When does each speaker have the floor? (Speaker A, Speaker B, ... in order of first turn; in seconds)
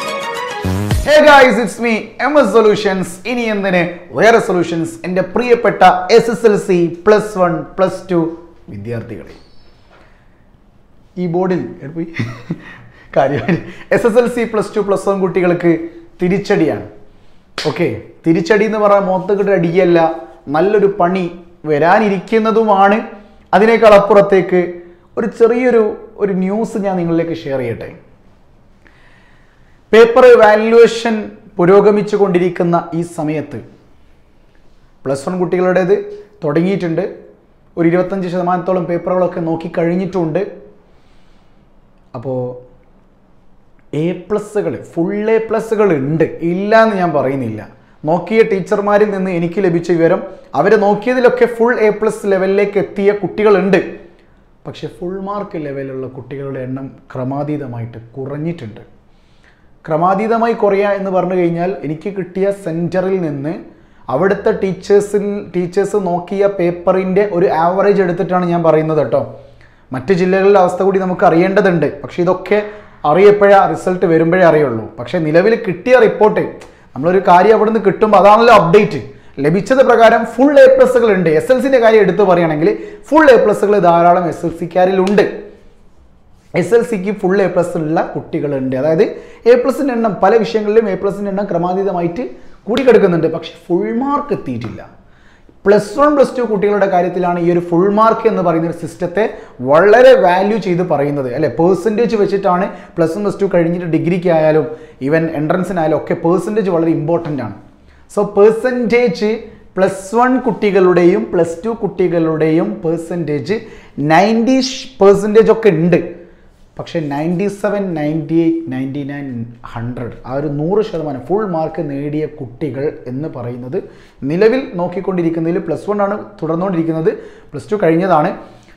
Speaker A: 1.0-9.4, 11.2-16.9, 17.6-23.0, 23.5-27.9, 29.9-33.6, 35.0-37.1, 37.8-40.4, 42.1-42.6, 44.0-53.8, 54.6-58.8, 59.8-63.6, 64.1-69.3, 69.9-85.3, 86.5-94.8, 95.6-107.6, 108.1-116.0, 116.8-128.3